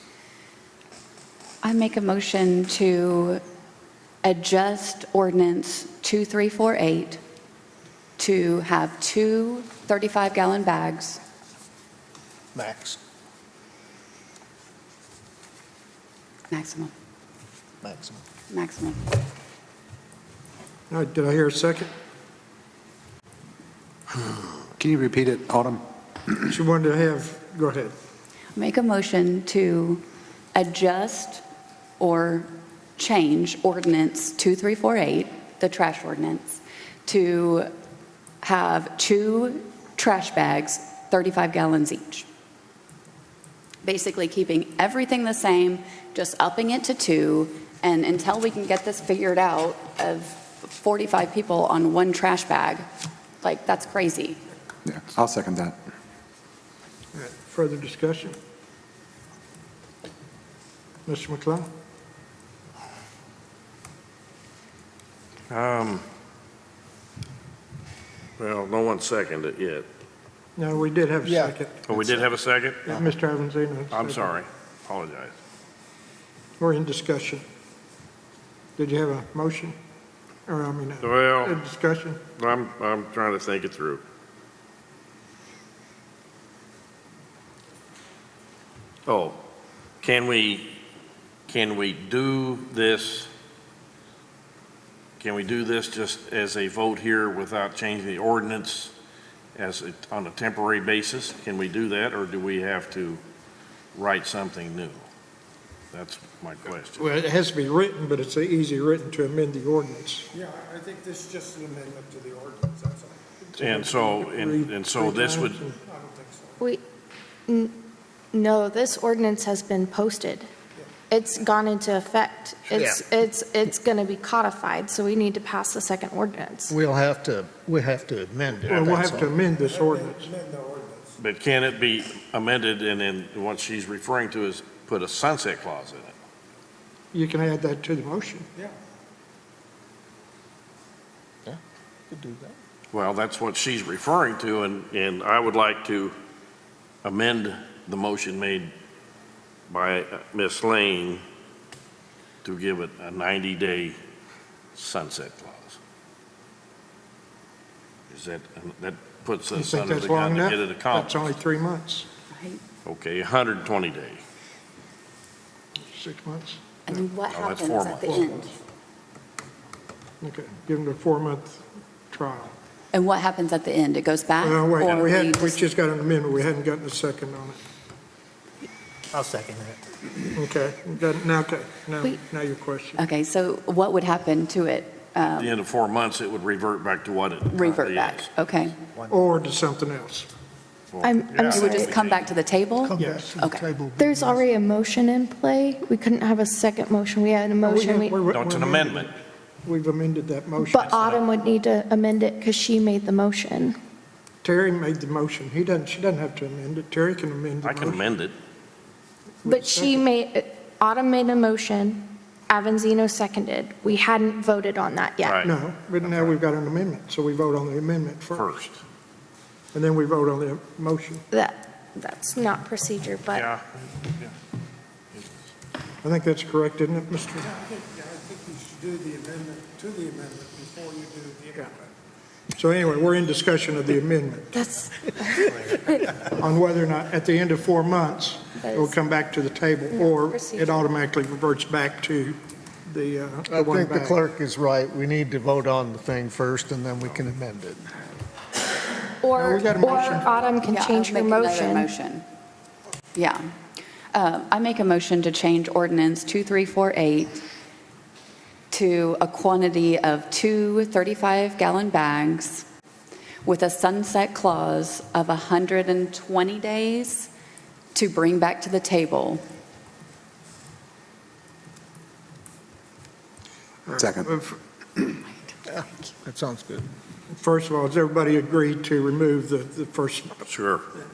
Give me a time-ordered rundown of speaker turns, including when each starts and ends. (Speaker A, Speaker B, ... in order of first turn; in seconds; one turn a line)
Speaker A: 1.6-3.4
Speaker A: 4.2-7.2
Speaker A: 8.2-11.2
Speaker B: 12.6-13.0
Speaker A: 16.5-16.9
Speaker B: 17.8-18.2
Speaker A: 18.5-19.0
Speaker C: 20.9-21.9
Speaker D: 24.3-25.9
Speaker C: 26.5-27.9
Speaker A: 28.6-30.0
Speaker A: 30.6-31.4
Speaker A: 32.0-37.7
Speaker A: 38.4-42.3
Speaker A: 43.8-52.9
Speaker A: 53.4-54.4
Speaker D: 54.9-55.8
Speaker C: 57.1-58.4
Speaker C: 61.1-61.7
Speaker E: 65.5-66.1
Speaker E: 68.4-69.9
Speaker C: 70.6-71.9
Speaker B: 71.2-71.5
Speaker E: 71.9-73.0
Speaker C: 72.8-74.4
Speaker E: 73.9-75.3
Speaker C: 76.6-77.4
Speaker C: 78.8-79.8
Speaker C: 80.5-82.2
Speaker E: 81.0-81.5
Speaker E: 82.3-84.0
Speaker E: 89.1-89.4
Speaker E: 90.0-90.8
Speaker E: 91.5-93.3
Speaker E: 95.2-98.9
Speaker E: 99.5-103.2
Speaker E: 104.0-105.0
Speaker E: 105.9-107.1
Speaker C: 107.0-110.3
Speaker F: 110.3-113.2
Speaker E: 113.6-115.6
Speaker C: 113.6-115.8
Speaker F: 115.8-116.6
Speaker G: 117.5-117.8
Speaker G: 118.3-120.5
Speaker G: 121.1-126.8
Speaker B: 122.7-123.0
Speaker B: 126.7-129.3
Speaker C: 128.7-130.3
Speaker F: 129.6-131.2
Speaker E: 131.2-136.1
Speaker C: 137.1-138.5
Speaker B: 142.1-142.6
Speaker E: 142.9-146.2
Speaker E: 147.0-148.7
Speaker E: 149.7-151.2
Speaker E: 152.4-154.0
Speaker E: 154.8-155.8
Speaker E: 158.1-161.1
Speaker C: 159.5-162.1
Speaker A: 162.3-162.6
Speaker E: 162.8-164.2
Speaker C: 165.9-167.1
Speaker A: 166.9-168.5
Speaker E: 167.3-168.2
Speaker C: 168.1-168.5
Speaker C: 170.2-172.5
Speaker A: 172.9-175.6
Speaker C: 174.4-177.6
Speaker B: 179.2-179.8
Speaker C: 180.3-183.0
Speaker A: 183.0-185.5
Speaker E: 185.2-188.3
Speaker A: 187.5-188.8
Speaker C: 189.1-190.3
Speaker E: 190.9-192.4
Speaker G: 191.0-191.9
Speaker A: 191.5-193.6
Speaker B: 192.8-194.4
Speaker C: 193.0-193.3
Speaker G: 194.0-198.2
Speaker C: 197.6-199.1
Speaker E: 198.3-199.1
Speaker C: 199.7-201.2
Speaker G: 200.6-203.8
Speaker C: 204.4-208.0
Speaker E: 207.6-208.4
Speaker C: 209.4-210.1
Speaker G: 209.5-215.5
Speaker E: 215.2-215.5
Speaker C: 215.4-218.5
Speaker E: 218.3-218.8
Speaker C: 219.7-221.3
Speaker G: 221.3-223.5
Speaker E: 223.3-223.6
Speaker C: 226.0-227.5
Speaker F: 227.6-231.7
Speaker C: 232.6-234.6
Speaker G: 234.6-235.6
Speaker C: 236.1-244.2
Speaker G: 238.6-239.0
Speaker G: 239.9-240.9
Speaker B: 243.5-247.9
Speaker G: 249.2-251.9
Speaker C: 249.3-250.3
Speaker A: 250.6-252.2
Speaker A: 253.2-253.4
Speaker A: 254.1-257.4
Speaker A: 258.7-262.7
Speaker A: 263.4-267.3
Speaker A: 267.9-269.4
Speaker C: 273.9-274.3
Speaker D: 274.0-274.3
Speaker B: 275.7-276.9
Speaker A: 275.7-276.1
Speaker C: 277.3-280.5
Speaker E: 280.5-280.9